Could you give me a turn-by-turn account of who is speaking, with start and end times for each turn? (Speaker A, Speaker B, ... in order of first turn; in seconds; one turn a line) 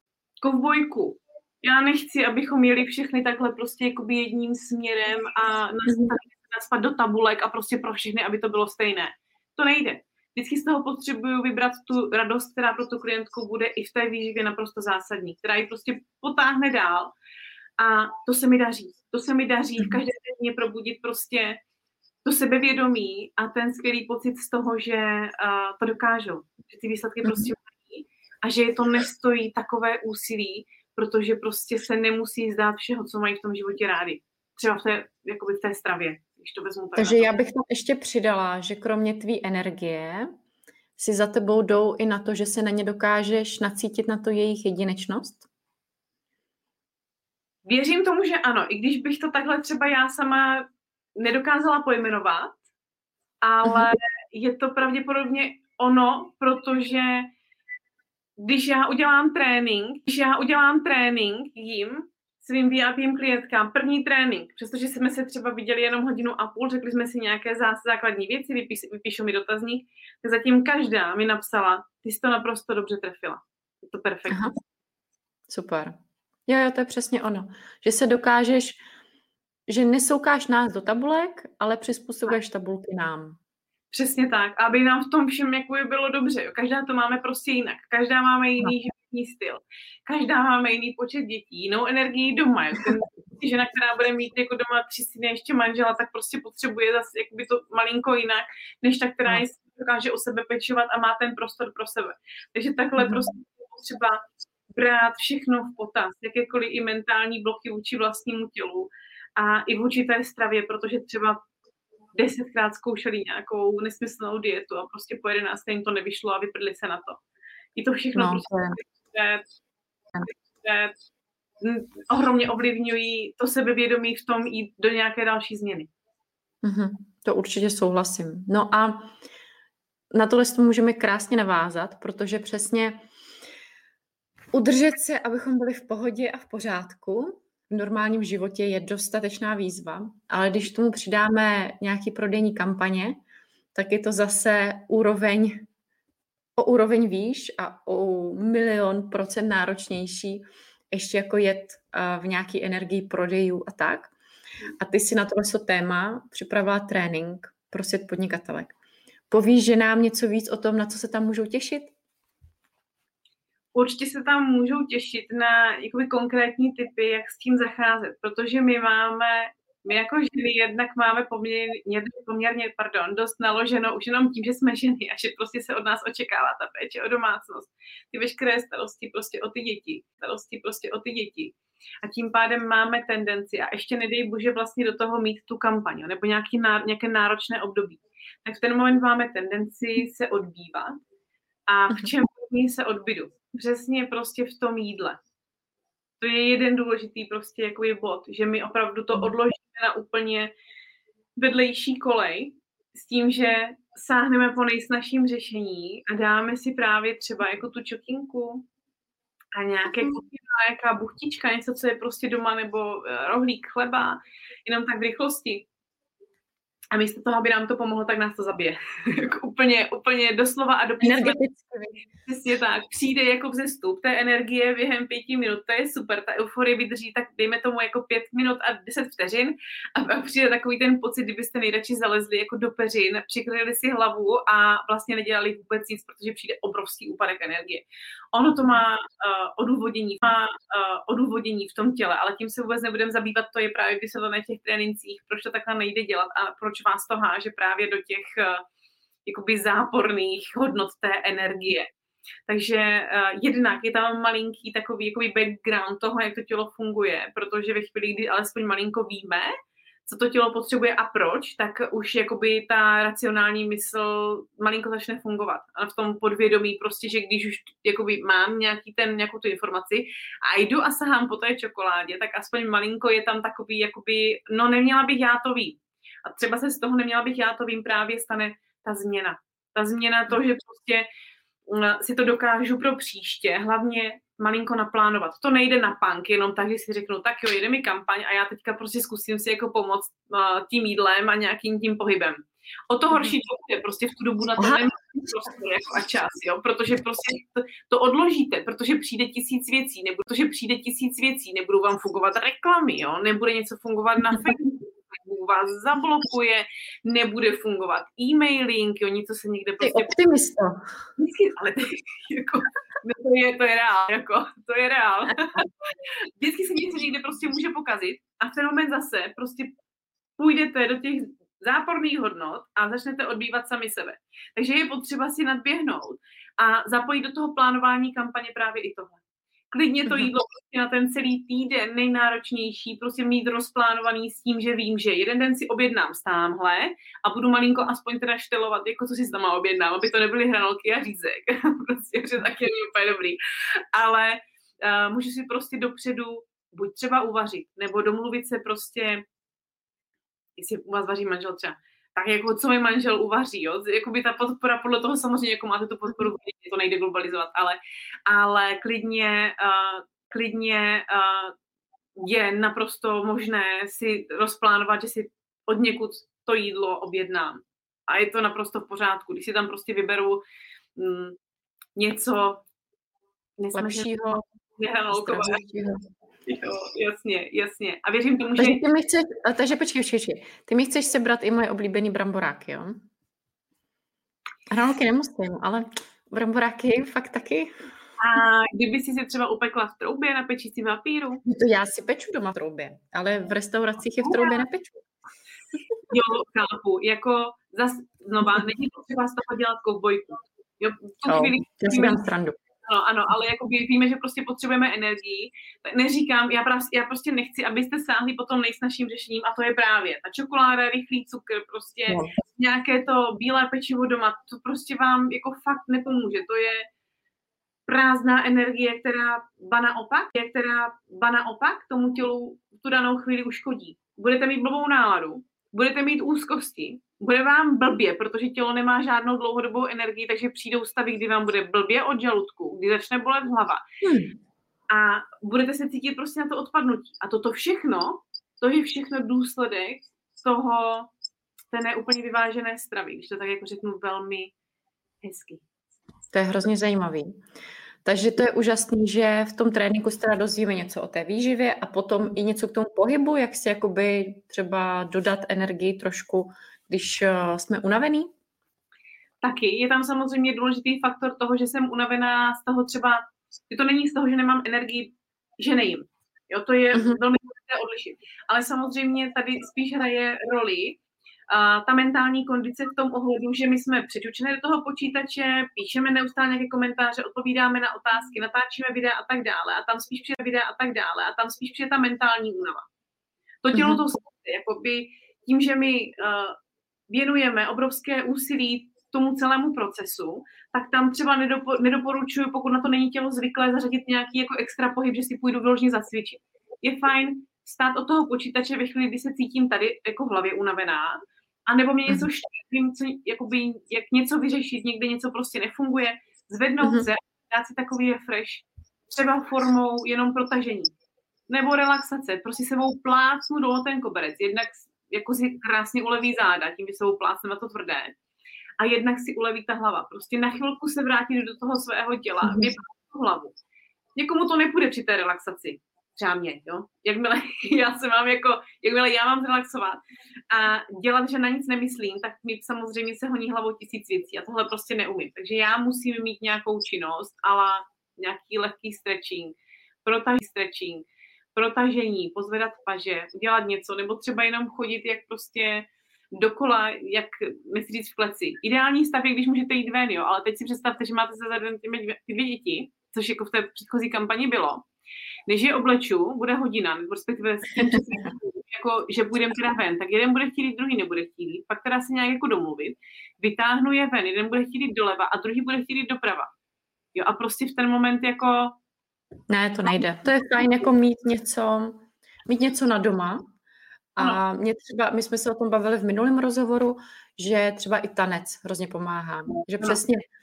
Speaker A: 0.4-17.1
Speaker B: 5.9-6.1
Speaker A: 17.8-21.6
Speaker A: 22.2-37.3
Speaker B: 27.2-27.5
Speaker B: 37.0-40.3
Speaker B: 41.0-45.5
Speaker A: 47.6-52.6
Speaker A: 53.4-57.3
Speaker B: 53.6-53.9
Speaker A: 58.4-74.4
Speaker B: 74.3-74.6
Speaker B: 75.5-76.0
Speaker B: 76.5-78.8
Speaker B: 79.7-83.4
Speaker A: 83.9-111.4
Speaker B: 103.0-103.2
Speaker A: 112.2-117.2
Speaker A: 117.8-119.5
Speaker B: 118.2-118.8
Speaker A: 120.2-120.9
Speaker A: 121.6-125.9
Speaker B: 126.6-129.1
Speaker B: 130.1-133.0
Speaker B: 134.5-143.2
Speaker B: 143.8-145.7
Speaker B: 146.6-154.1
Speaker B: 154.8-158.7
Speaker B: 159.3-161.9
Speaker A: 163.7-191.0
Speaker A: 191.7-195.2
Speaker A: 196.2-200.5
Speaker A: 201.4-208.6
Speaker A: 209.5-215.7
Speaker A: 216.9-221.4
Speaker B: 221.0-222.0
Speaker A: 222.3-248.6
Speaker A: 249.3-251.9
Speaker A: 252.5-259.5
Speaker A: 260.1-281.1
Speaker A: 281.7-310.1
Speaker B: 294.6-294.8
Speaker B: 309.8-310.8
Speaker A: 311.2-319.7
Speaker A: 320.4-329.2
Speaker A: 329.7-343.4
Speaker A: 343.9-349.2
Speaker A: 350.6-361.5
Speaker A: 362.2-370.4
Speaker A: 371.0-371.4
Speaker A: 372.0-372.6
Speaker A: 373.6-375.6
Speaker B: 373.7-374.4
Speaker B: 375.1-376.1
Speaker A: 376.5-378.8
Speaker B: 378.6-383.0
Speaker B: 384.7-387.7
Speaker A: 388.2-391.4
Speaker B: 391.4-395.1
Speaker A: 394.2-394.6
Speaker A: 396.1-402.2
Speaker B: 401.3-402.6
Speaker A: 402.9-416.9
Speaker B: 412.1-412.4
Speaker A: 417.9-433.8
Speaker B: 434.0-434.4
Speaker A: 434.9-441.1
Speaker A: 441.7-444.5
Speaker A: 445.2-445.6
Speaker B: 446.3-447.4
Speaker B: 448.1-458.3
Speaker A: 459.4-471.0
Speaker B: 466.9-467.2
Speaker A: 471.5-482.9
Speaker A: 483.6-486.6
Speaker B: 483.7-484.0
Speaker A: 487.1-510.9
Speaker B: 506.8-507.1
Speaker A: 511.5-518.1
Speaker A: 518.8-523.5
Speaker B: 522.4-522.7
Speaker A: 524.1-554.9
Speaker A: 555.5-566.5
Speaker B: 557.8-558.3
Speaker A: 567.1-568.8
Speaker B: 569.5-573.4
Speaker B: 574.2-580.2